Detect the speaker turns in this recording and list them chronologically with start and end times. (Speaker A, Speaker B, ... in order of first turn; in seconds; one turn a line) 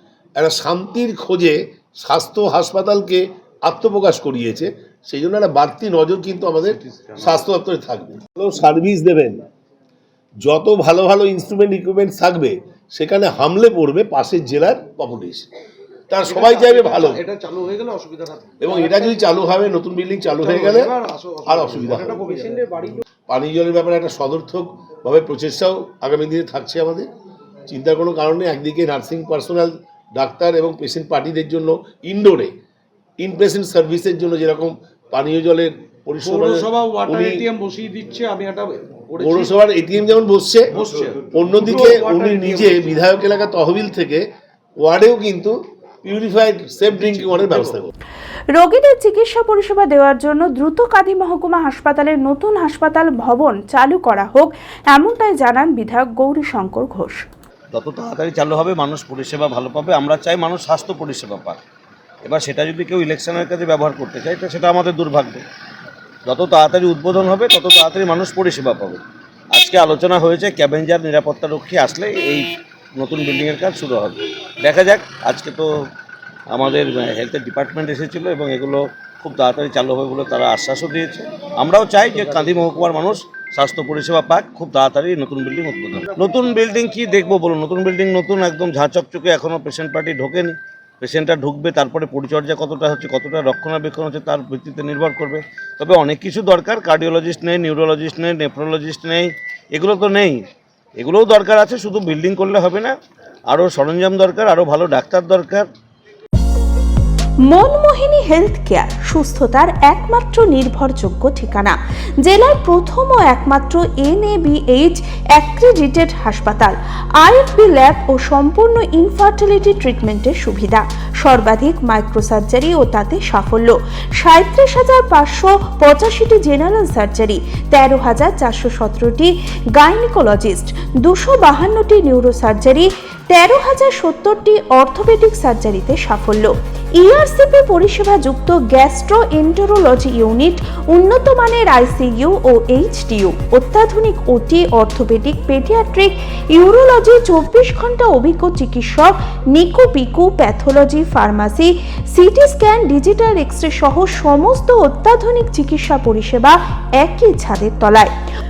Speaker A: 0.4-9.4
Speaker A: 10.4-15.5
Speaker A: 16.1-17.2
Speaker B: 16.3-19.3
Speaker A: 18.6-22.5
Speaker B: 20.3-23.0
Speaker A: 23.3-27.1
Speaker A: 27.7-32.5
Speaker A: 33.2-37.5
Speaker B: 36.2-39.5
Speaker A: 39.2-40.8
Speaker B: 40.7-43.0
Speaker A: 41.3-44.2
Speaker A: 44.8-47.9
Speaker B: 47.3-47.6
Speaker C: 48.5-57.2
Speaker D: 57.7-61.6
Speaker D: 62.2-65.5
Speaker D: 66.3-75.9
Speaker D: 76.5-100.5
Speaker D: 101.0-105.7
Speaker C: 107.5-158.1